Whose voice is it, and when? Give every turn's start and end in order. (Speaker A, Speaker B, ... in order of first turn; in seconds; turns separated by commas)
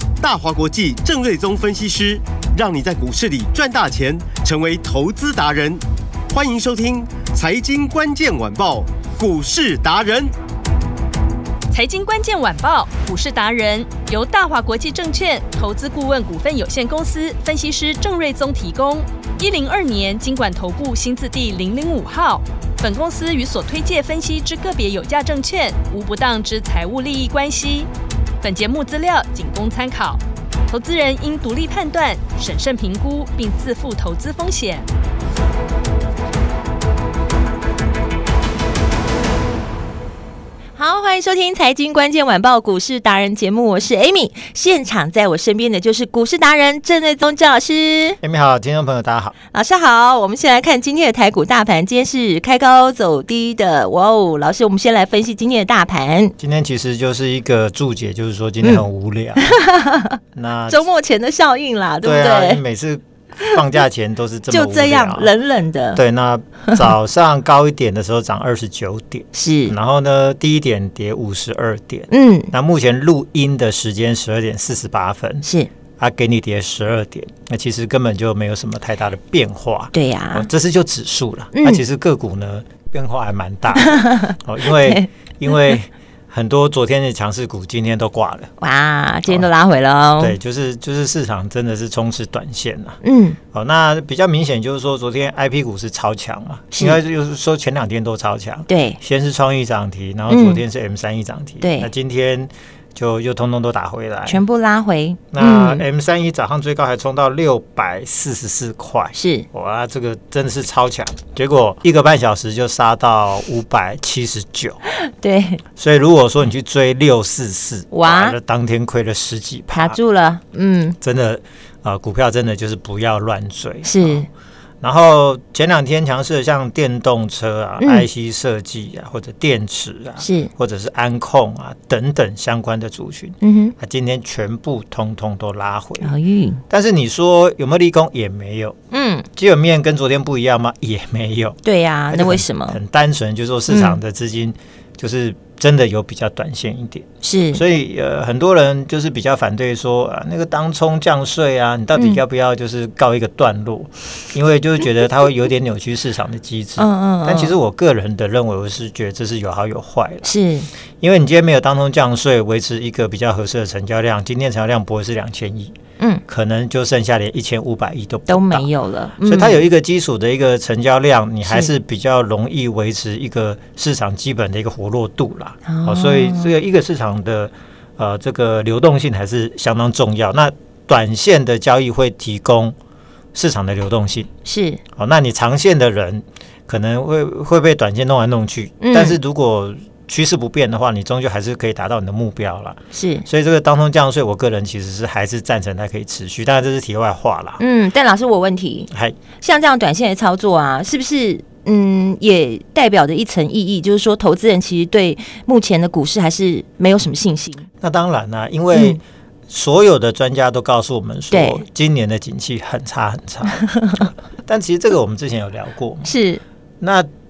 Speaker A: 0.2-10.3, Speaker B: 11.7-27.9, Speaker B: 28.4-34.9, Speaker C: 40.8-48.2, Speaker D: 48.2-49.4, Speaker C: 49.5-56.3, Speaker D: 56.4-59.5, Speaker C: 58.6-58.9, Speaker C: 59.4-62.6, Speaker D: 60.3-60.9, Speaker D: 62.0-65.3, Speaker C: 64.5-66.0, Speaker D: 65.9-75.5, Speaker C: 69.3-69.8, Speaker C: 72.1-72.5, Speaker C: 75.4-75.7, Speaker D: 76.0-88.5, Speaker C: 79.9-80.5, Speaker C: 81.5-81.8, Speaker C: 83.8-85.1, Speaker C: 88.6-90.3, Speaker D: 90.2-93.0, Speaker C: 93.0-93.4, Speaker D: 93.5-104.4, Speaker C: 96.7-97.0, Speaker C: 98.7-99.0, Speaker C: 100.3-100.6, Speaker C: 101.6-101.9, Speaker C: 104.2-105.8, Speaker D: 105.3-114.8, Speaker C: 109.1-109.5, Speaker C: 114.9-115.6, Speaker D: 115.8-120.0, Speaker C: 117.9-118.4, Speaker C: 119.7-121.0, Speaker D: 121.0-124.2, Speaker C: 123.8-124.3, Speaker D: 124.8-136.2, Speaker C: 127.8-128.1, Speaker C: 130.2-130.5, Speaker C: 133.4-133.7, Speaker C: 136.0-136.6, Speaker D: 136.7-138.8, Speaker C: 138.9-139.2, Speaker D: 139.3-141.6, Speaker C: 141.6-142.8, Speaker D: 142.1-160.3, Speaker C: 143.7-144.0, Speaker C: 147.2-147.6, Speaker C: 156.8-157.5, Speaker C: 160.2-160.7, Speaker D: 161.0-168.7, Speaker C: 168.3-169.6, Speaker D: 169.2-182.7, Speaker C: 171.4-171.7, Speaker C: 175.7-176.5, Speaker D: 183.3-184.3, Speaker C: 184.4-184.8, Speaker D: 184.9-197.6, Speaker C: 188.8-189.2, Speaker C: 192.9-193.2, Speaker C: 197.6-207.7, Speaker D: 198.9-199.2, Speaker D: 207.8-216.2, Speaker C: 208.7-209.0, Speaker C: 211.3-211.6, Speaker C: 213.6-214.0, Speaker C: 216.0-216.4, Speaker D: 216.8-217.1